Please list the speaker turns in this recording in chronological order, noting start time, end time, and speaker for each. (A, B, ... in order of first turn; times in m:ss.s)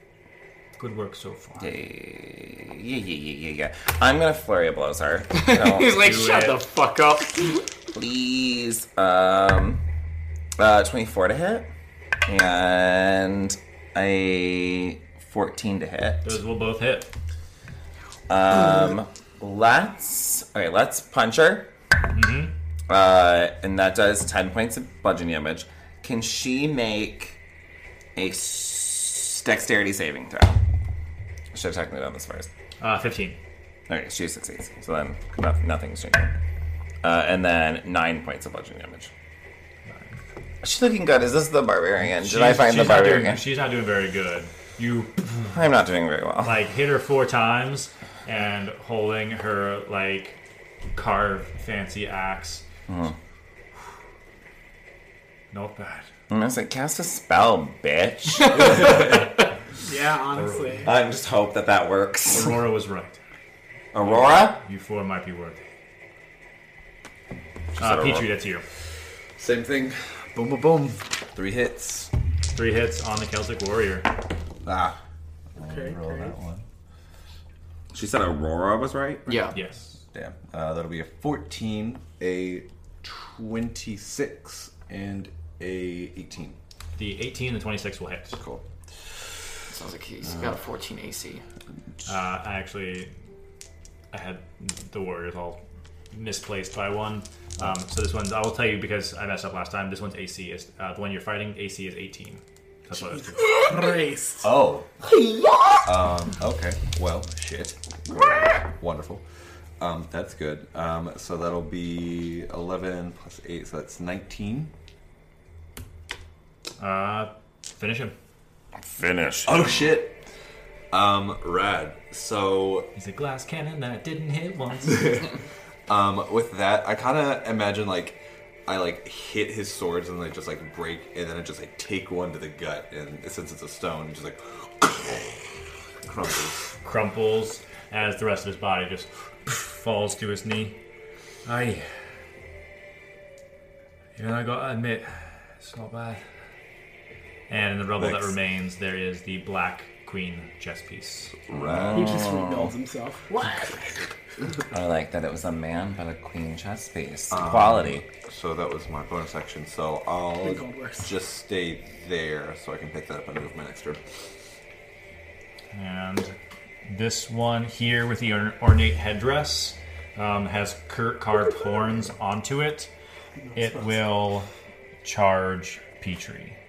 0:00.8-0:01.7 A
0:01.6-0:06.0 B
0:05.4-0:07.6 C
0:06.0-0:06.6 A
0:07.9-0:09.8 B
0:10.6-0:11.7 B
0:12.2-0:16.4 B
0:16.2-0:17.1 A
0:18.3-0:21.7 B
0:22.1-0:22.5 A
0:22.9-0:27.4 B
0:28.2-0:30.6 B
0:31.5-0:32.5 B
0:32.8-0:33.4 A
0:33.9-0:36.3 B
0:37.0-0:39.1 B
0:39.9-0:40.2 A
0:40.6-0:43.4 B
0:42.1-0:45.3 A
0:45.5-0:46.6 B
0:46.4-0:50.4 A
0:51.0-0:52.6 A
0:52.9-0:53.1 B
0:55.5-0:56.1 A
0:56.3-0:58.9 B
0:58.6-0:59.1 D
0:59.8-1:00.9 E
1:00.3-1:00.9 A
1:00.8-1:02.6 B
1:02.3-1:03.2 A
1:03.9-1:04.6 B
1:04.0-1:05.6 A
1:07.8-1:08.3 B
1:07.8-1:08.6 A
1:09.4-1:12.1 D
1:12.5-1:14.1 A
1:14.6-1:15.0 D
1:15.6-1:16.6 D
1:15.6-1:16.4 E
1:17.9-1:19.4 B
1:19.3-1:19.6 C
1:19.5-1:19.8 A
1:20.1-1:26.6 D
1:27.0-1:28.4 A
1:28.4-1:28.6 D
1:29.7-1:31.4 C
1:32.1-1:33.1 A
1:34.1-1:35.6 A
1:36.1-1:43.5 A
1:43.0-1:44.5 E
1:44.4-1:44.9 D
1:45.3-1:45.8 C
1:45.8-1:49.2 D
1:49.8-1:54.7 D
1:56.8-1:58.1 A
1:58.8-1:59.9 B
1:59.4-2:00.2 D
2:00.9-2:02.9 D
2:03.0-2:05.3 A
2:04.9-2:05.2 D
2:05.9-2:15.5 D
2:16.0-2:16.7 D
2:16.8-2:20.8 A
2:21.4-2:21.9 A
2:24.2-2:26.2 A
2:27.5-2:31.5 A
2:28.0-2:28.3 D
2:31.4-2:32.2 D
2:31.5-2:32.7 B
2:31.9-2:34.0 E
2:34.7-2:38.1 B
2:37.3-2:44.0 D
2:40.4-2:41.2 E
2:45.7-2:46.3 A
2:46.8-2:52.9 A
2:53.4-2:53.9 E
2:53.5-2:54.5 A
2:55.0-2:56.6 A